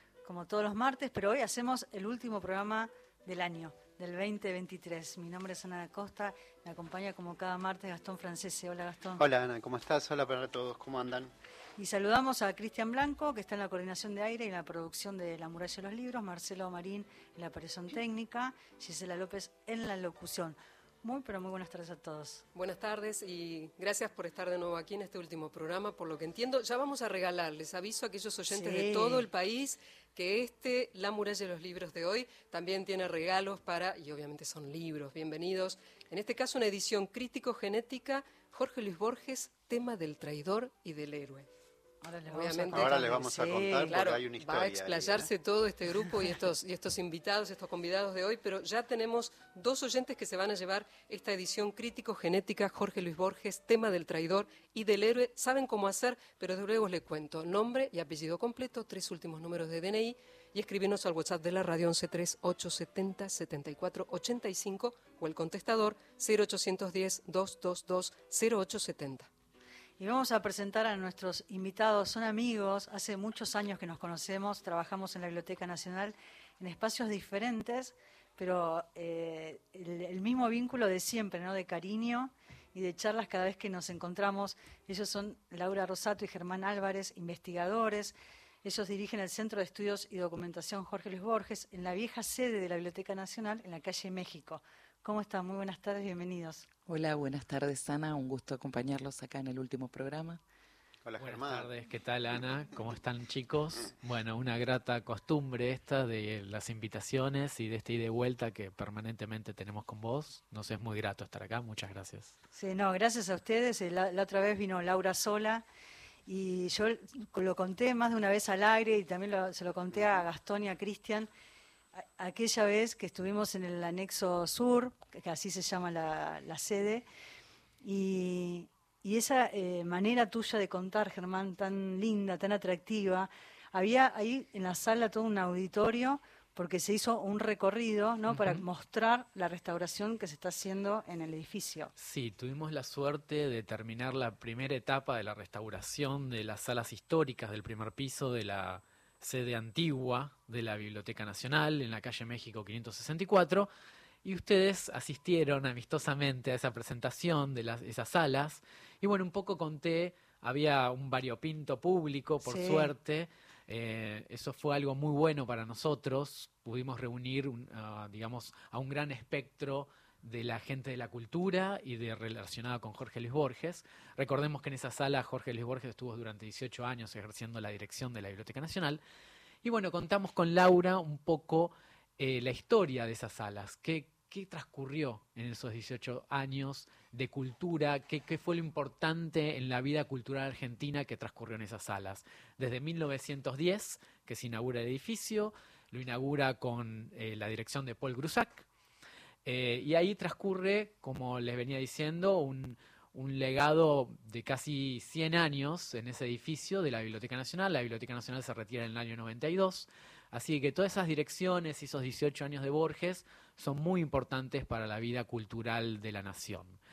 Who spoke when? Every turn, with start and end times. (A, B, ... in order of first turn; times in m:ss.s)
0:00.2-0:09.2 A
0:09.2-0:11.3 B
0:11.8-0:22.4 A
0:22.5-0:41.5 C
0:28.5-0:29.3 A
0:42.0-0:44.0 A
0:42.3-0:43.1 C
0:42.7-0:45.3 B
0:43.8-1:09.3 C
1:10.0-1:36.6 A
1:36.9-1:40.4 D
1:41.0-1:41.7 B
1:41.2-1:52.3 E
1:52.5-1:55.6 A
1:56.3-2:01.3 A
2:02.0-2:07.0 A
2:07.8-2:21.9 A
2:18.3-2:18.6 E
2:22.0-2:33.7 E
2:34.2-2:59.0 E
2:42.4-2:42.9 A
2:59.6-3:18.7 E
3:19.4-3:36.8 E